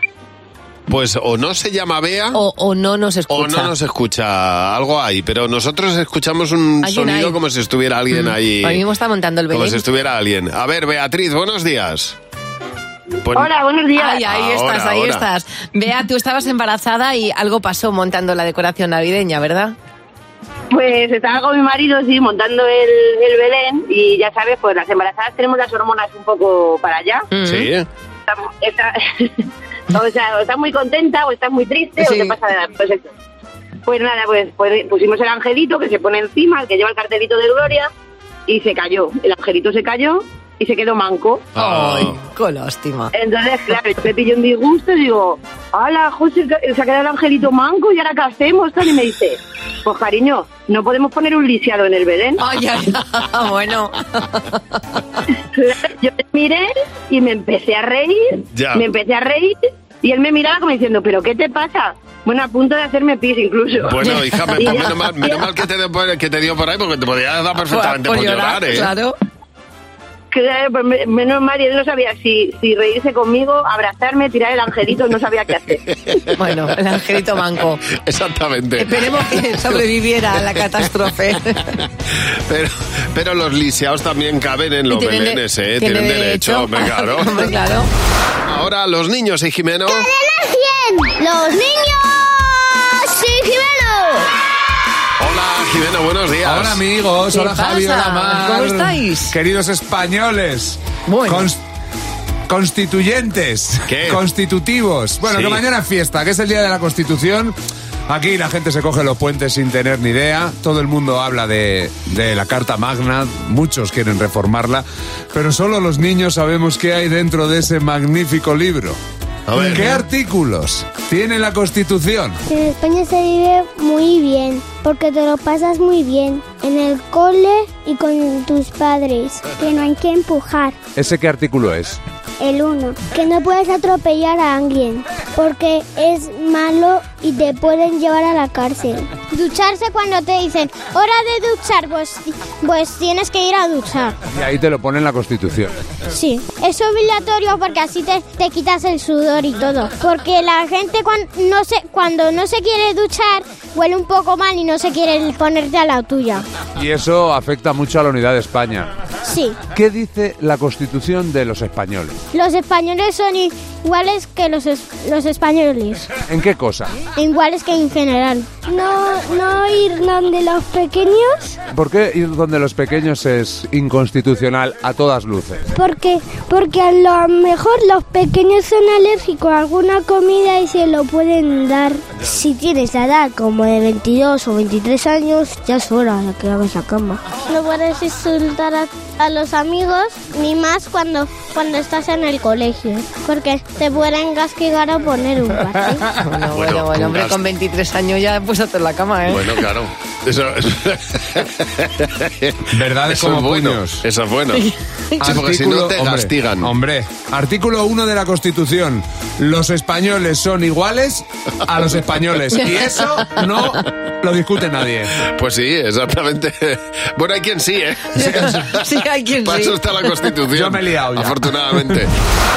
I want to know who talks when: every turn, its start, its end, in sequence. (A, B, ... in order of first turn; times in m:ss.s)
0:00.9-0:02.4 A
0:02.3-0:03.7 B
0:03.3-0:08.8 A
0:06.8-0:07.4 B
0:08.1-0:09.8 B
0:09.5-0:12.2 A
0:13.2-0:13.5 A
0:13.3-0:14.2 C
0:14.0-0:19.8 B
0:14.2-0:15.3 A
0:20.7-0:27.3 C
0:27.3-0:27.7 B
0:27.4-0:27.9 A
0:28.3-0:33.1 C
0:32.0-0:32.3 B
0:33.9-0:37.9 C
0:38.5-0:41.5 C
0:41.6-0:42.2 A
0:41.6-0:43.1 B
0:43.1-0:52.4 C
0:52.4-0:54.6 B
0:55.6-1:05.5 C
0:58.5-0:58.8 A
1:03.8-1:08.9 A
1:07.7-1:09.2 B
1:10.3-1:15.8 C
1:16.4-1:17.8 B
1:17.9-1:19.8 A
1:18.8-1:21.7 B
1:22.5-1:27.5 A
1:24.9-1:27.9 B
1:28.5-1:30.1 A
1:29.9-1:34.3 D
1:35.2-1:36.8 A
1:36.4-1:41.6 E
1:37.3-1:39.4 B
1:41.1-1:41.5 B
1:42.5-1:47.6 E
1:43.9-1:44.2 A
1:45.2-1:45.6 A
1:48.1-1:59.0 E
1:59.5-2:00.0 A
1:59.6-2:02.4 E
2:02.5-2:10.8 D
2:11.0-2:12.0 E
2:12.4-2:24.2 D
2:24.3-2:25.7 E
2:26.1-2:36.5 D
2:36.8-2:38.9 E
2:39.2-2:39.6 D
2:39.7-2:42.2 E
2:42.3-2:46.1 D
2:46.3-2:47.0 E
2:47.2-2:51.6 D
2:51.7-2:55.6 E
2:55.8-3:16.1 D
3:16.2-3:19.5 B
3:16.5-3:17.4 A
3:19.3-3:24.7 A
3:22.7-3:24.0 E
3:24.6-3:25.2 B
3:25.2-3:35.2 E
3:25.2-3:26.7 A
3:32.6-3:33.4 B
3:35.2-3:38.8 A
3:38.2-3:39.8 B
3:38.2-3:38.6 E
3:39.4-3:42.1 A
3:40.5-3:42.0 E